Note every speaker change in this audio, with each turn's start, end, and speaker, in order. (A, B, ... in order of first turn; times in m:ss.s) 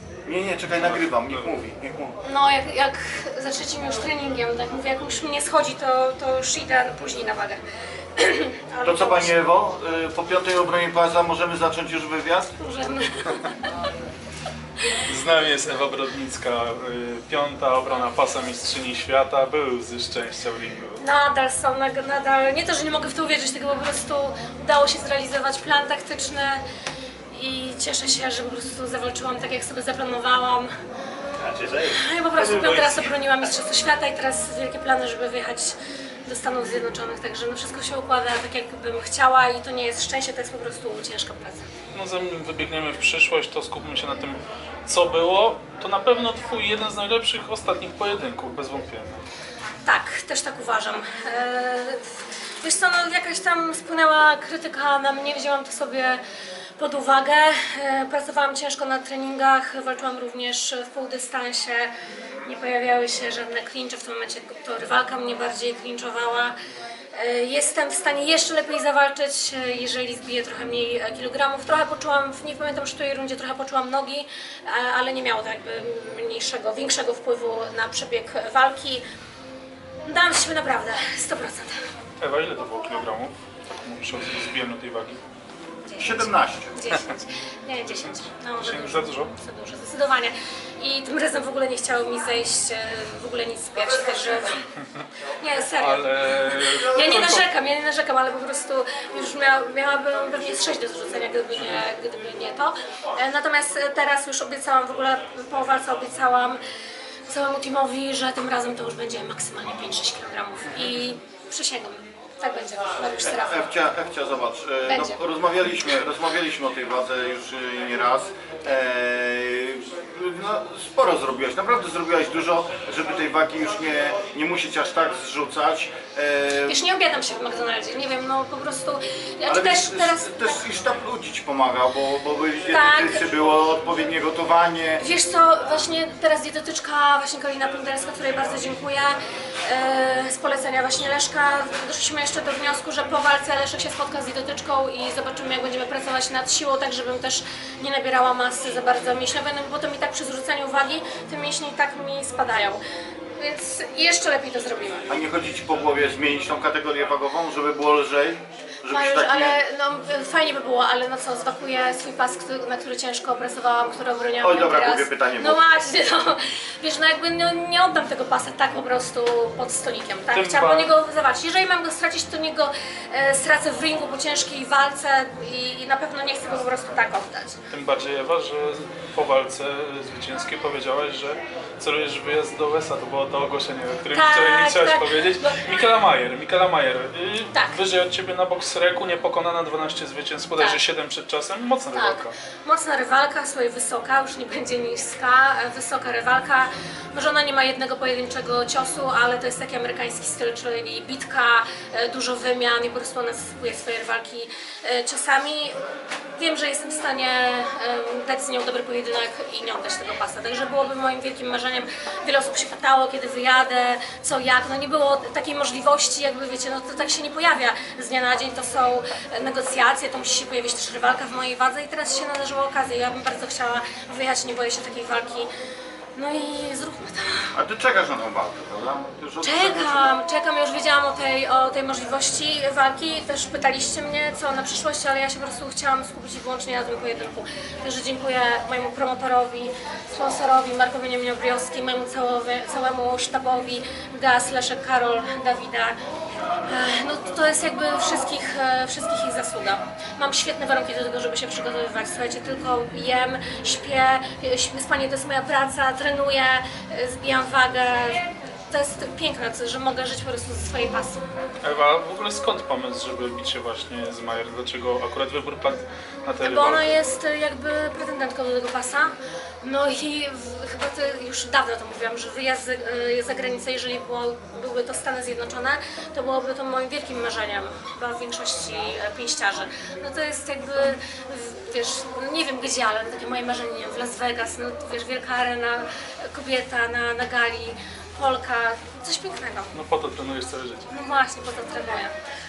0:00.2-0:02.2 A
0:00.7-0:01.5 B
0:02.2-0:07.6 C
0:08.2-0:09.3 C
0:08.8-0:12.5 A
0:12.6-0:13.9 C
0:15.0-0:21.0 B
0:21.0-0:26.6 C
0:27.3-0:30.7 C
0:31.4-0:31.8 A
0:31.7-0:41.7 C
0:32.5-0:33.0 A
0:41.9-0:49.2 B
0:49.8-0:52.1 C
0:52.6-0:56.2 C
0:56.8-1:01.9 C
1:02.4-1:06.5 C
1:07.1-1:19.0 C
1:20.0-1:21.8 C
1:22.2-1:25.2 B
1:25.9-1:26.2 C
1:26.0-1:26.8 A
1:26.7-1:34.6 C
1:27.9-1:29.3 B
1:35.2-1:46.6 C
1:35.7-1:37.4 B
1:47.3-1:53.6 C
1:53.3-2:06.8 A
1:54.8-1:55.2 C
2:06.6-2:10.6 C
2:09.5-2:15.0 A
2:12.7-2:13.2 C
2:15.0-2:32.8 C
2:33.4-2:35.1 C
2:35.1-2:39.6 A
2:38.8-2:57.6 C
2:44.4-2:45.6 A
2:50.3-2:50.9 B
2:57.7-3:12.3 B
3:04.1-3:05.7 C
3:07.5-3:07.8 C
3:10.5-3:10.8 C
3:11.9-3:25.7 C
3:26.4-3:45.5 C
3:46.2-3:47.5 C
3:47.5-3:50.0 A
3:49.4-4:06.0 C
4:06.6-4:21.3 C
4:21.6-4:26.9 B
4:26.4-4:49.7 C
4:49.7-4:50.9 B
4:50.9-4:52.1 C